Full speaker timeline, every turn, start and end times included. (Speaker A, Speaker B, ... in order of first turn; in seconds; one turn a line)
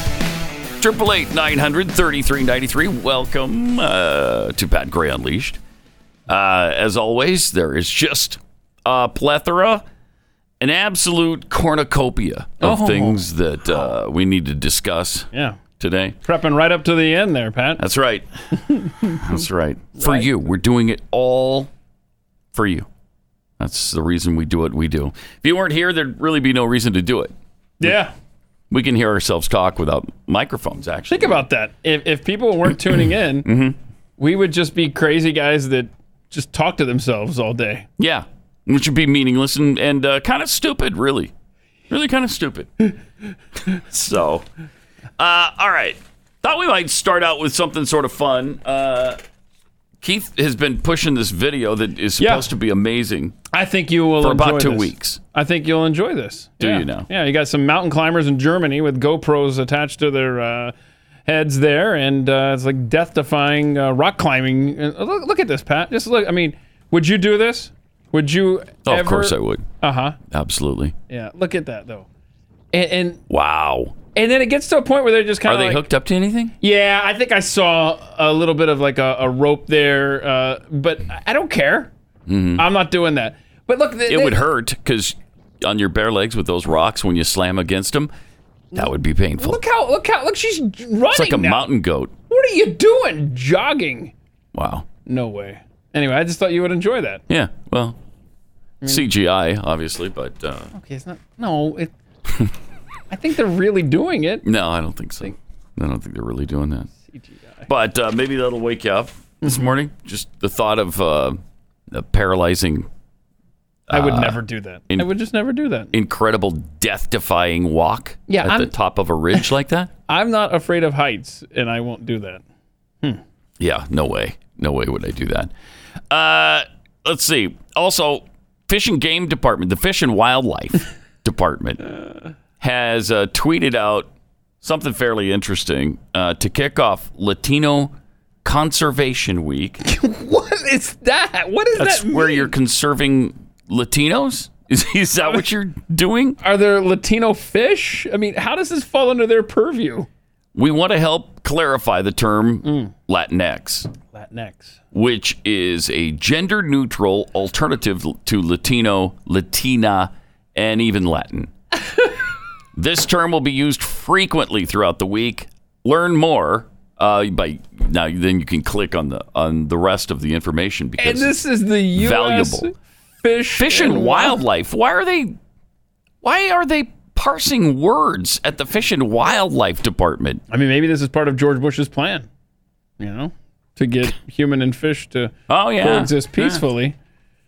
Speaker A: 0.8-5.6
Speaker A: 6.3-9.8
Speaker A: 10.6-15.3
Speaker B: 12.6-13.2
Speaker B: 15.3-15.6
Speaker A: 15.8-16.2
Speaker B: 16.2-17.8
Speaker A: 17.8-18.3
Speaker B: 18.7-19.2
Speaker A: 19.0-21.7
Speaker B: 20.0-20.3
Speaker A: 22.5-22.9
Speaker A: 23.6-27.9
Speaker B: 27.8-28.1
Speaker A: 28.7-31.4
Speaker B: 31.1-33.5
Speaker A: 33.5-33.8
Speaker B: 34.2-37.9
Speaker A: 38.0-41.3
Speaker A: 41.9-42.9
Speaker A: 43.7-44.5
Speaker A: 45.2-49.2
Speaker A: 50.0-53.4
Speaker B: 52.2-52.5
Speaker B: 53.5-60.7
Speaker A: 54.2-55.2
Speaker A: 56.6-57.1
Speaker B: 61.3-70.2
Speaker A: 68.9-69.7
Speaker A: 70.3-71.0
Speaker B: 71.1-72.1
Speaker B: 72.7-73.2
Speaker A: 73.3-74.0
Speaker B: 74.2-75.8
Speaker A: 75.5-76.5
Speaker B: 76.6-81.9
Speaker A: 82.3-82.7
Speaker B: 82.6-84.5
Speaker A: 84.1-88.1
Speaker A: 88.7-89.6
Speaker B: 89.4-91.7
Speaker A: 91.1-92.1
Speaker B: 92.3-94.1
Speaker A: 94.5-94.9
Speaker B: 95.1-97.2
Speaker A: 97.3-98.0
Speaker B: 98.8-99.1
Speaker A: 98.9-100.7
Speaker B: 100.7-101.9
Speaker B: 103.1-104.5
Speaker A: 104.4-106.9
Speaker B: 107.1-107.7
Speaker A: 107.7-112.9
Speaker A: 113.9-115.1
Speaker B: 113.9-115.9
Speaker A: 115.9-119.9
Speaker B: 118.3-118.7
Speaker B: 120.1-122.4
Speaker A: 123.6-125.5
Speaker A: 126.1-131.9
Speaker A: 132.6-134.1
Speaker A: 134.6-139.8
Speaker B: 139.8-142.5
Speaker A: 141.8-146.4
Speaker B: 146.4-150.1
Speaker A: 150.6-153.9
Speaker B: 152.6-152.9
Speaker B: 154.1-154.8
Speaker A: 154.9-161.5
Speaker A: 162.8-171.3
Speaker B: 171.0-174.4
Speaker A: 171.9-172.7
Speaker A: 173.6-175.4
Speaker A: 176.2-180.4
Speaker B: 180.5-182.3
Speaker B: 183.0-187.0
Speaker A: 185.5-186.6